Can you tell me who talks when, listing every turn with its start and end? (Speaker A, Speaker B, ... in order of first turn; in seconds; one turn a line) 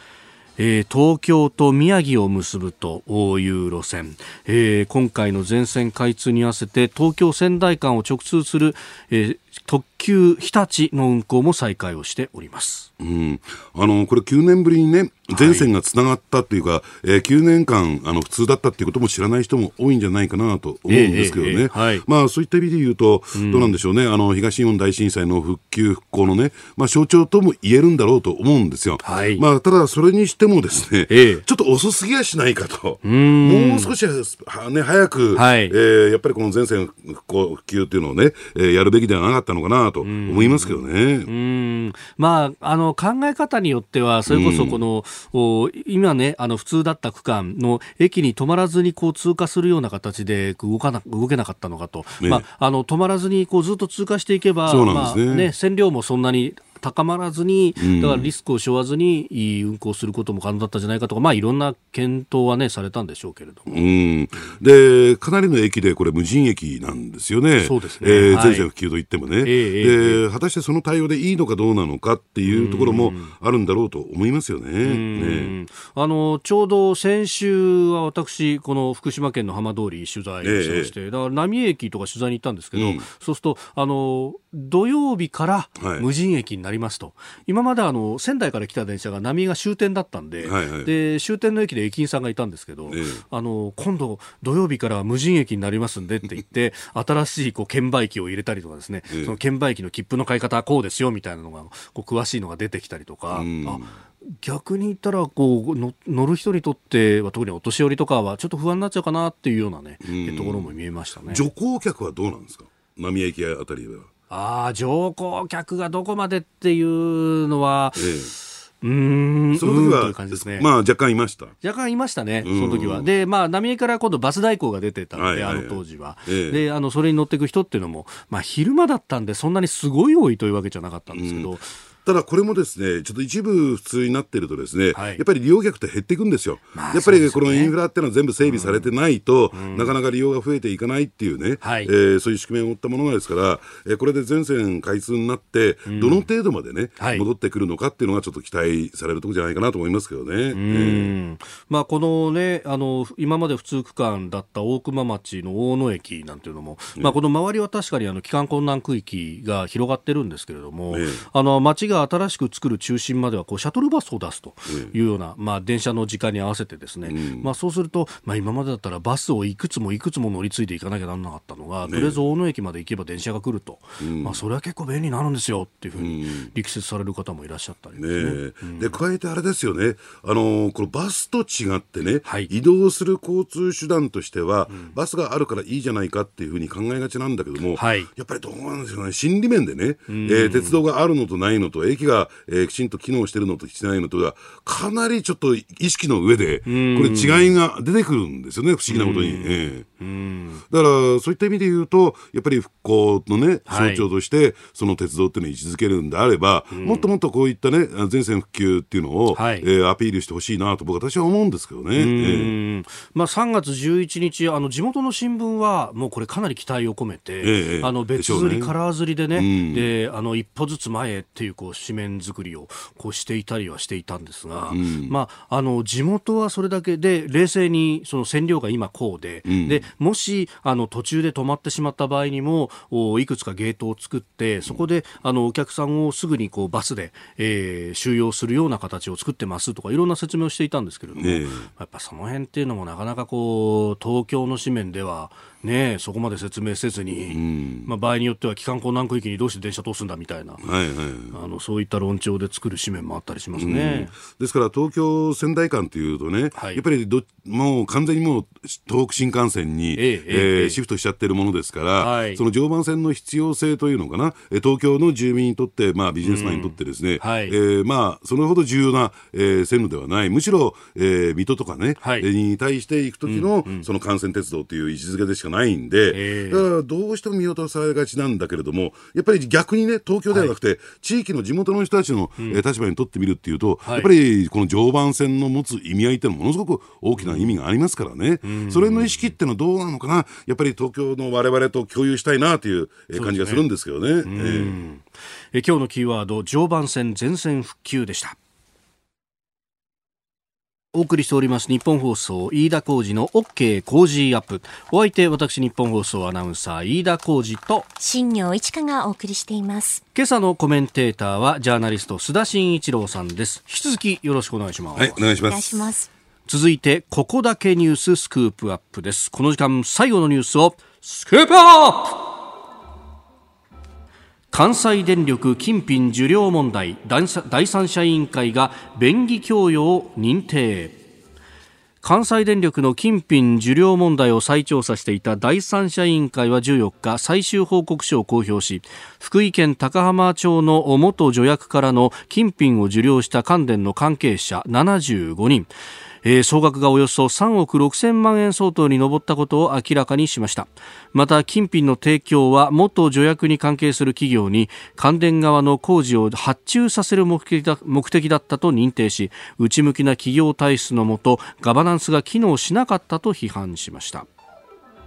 Speaker A: 0.6-12.9
Speaker B: 13.0-41.3
Speaker A: 15.3-15.7
Speaker A: 20.9-22.0
Speaker A: 23.3-23.8
Speaker A: 29.0-29.4
Speaker A: 31.1-31.4
Speaker A: 33.0-33.9
Speaker A: 35.3-35.7
Speaker A: 40.0-63.8
Speaker B: 44.3-44.8
Speaker B: 54.7-55.5
Speaker B: 57.8-58.3
Speaker B: 63.7-75.5
Speaker A: 67.6-68.7
Speaker A: 69.4-70.2
Speaker A: 72.4-73.3
Speaker A: 74.8-111.5
Speaker B: 80.4-80.9
Speaker B: 82.7-83.0
Speaker B: 85.8-86.0
Speaker B: 90.4-90.9
Speaker B: 92.9-93.2
Speaker B: 99.1-99.3
Speaker B: 103.3-103.9
Speaker B: 110.0-110.7
Speaker B: 111.3-114.1
Speaker A: 114.3-120.7
Speaker B: 118.0-118.3
Speaker B: 119.6-121.5
Speaker A: 121.6-131.7
Speaker B: 122.4-123.1
Speaker B: 125.1-126.6
Speaker B: 131.1-131.5
Speaker B: 132.0-151.1
Speaker A: 134.9-135.2
Speaker A: 136.7-137.7
Speaker A: 138.4-138.9
Speaker A: 139.5-139.9
Speaker A: 141.6-141.9
Speaker A: 145.8-146.3
Speaker A: 147.0-147.2
Speaker A: 150.5-178.9
Speaker B: 160.9-161.2
Speaker B: 167.1-167.5
Speaker B: 171.8-172.2
Speaker B: 174.0-174.4
Speaker B: 176.0-176.5
Speaker B: 178.0-199.8
Speaker A: 182.2-182.5
Speaker A: 184.7-184.9
Speaker A: 187.7-188.1
Speaker A: 190.1-190.8
Speaker A: 196.7-197.5
Speaker A: 198.9-200.6
Speaker B: 200.7-212.5
Speaker A: 203.7-204.1
Speaker A: 206.7-207.1
Speaker A: 209.3-209.7
Speaker A: 211.9-250.6
Speaker B: 217.4-218.7
Speaker B: 219.3-219.9
Speaker B: 224.7-225.1
Speaker B: 229.5-229.8
Speaker B: 241.2-241.7
Speaker B: 247.3-247.9
Speaker B: 250.6-251.3
Speaker A: 251.3-254.1
Speaker B: 253.6-294.8
Speaker A: 256.5-256.8
Speaker A: 259.9-260.8
Speaker A: 262.0-262.4
Speaker A: 266.2-267.6
Speaker A: 272.0-272.3
Speaker A: 273.2-273.9
Speaker A: 276.1-276.6
Speaker A: 283.8-284.1
Speaker A: 287.2-287.6
Speaker A: 288.4-289.3
Speaker A: 293.1-293.6
Speaker A: 294.2-298.4
Speaker A: 300.9-307.9
Speaker C: 308.0-310.0
Speaker A: 310.1-315.2
Speaker B: 314.9-315.9
Speaker C: 315.5-316.1
Speaker A: 316.5-322.3
Speaker A: 324.5-331.0
Speaker A: 332.0-345.7
Speaker A: 346.2-364.3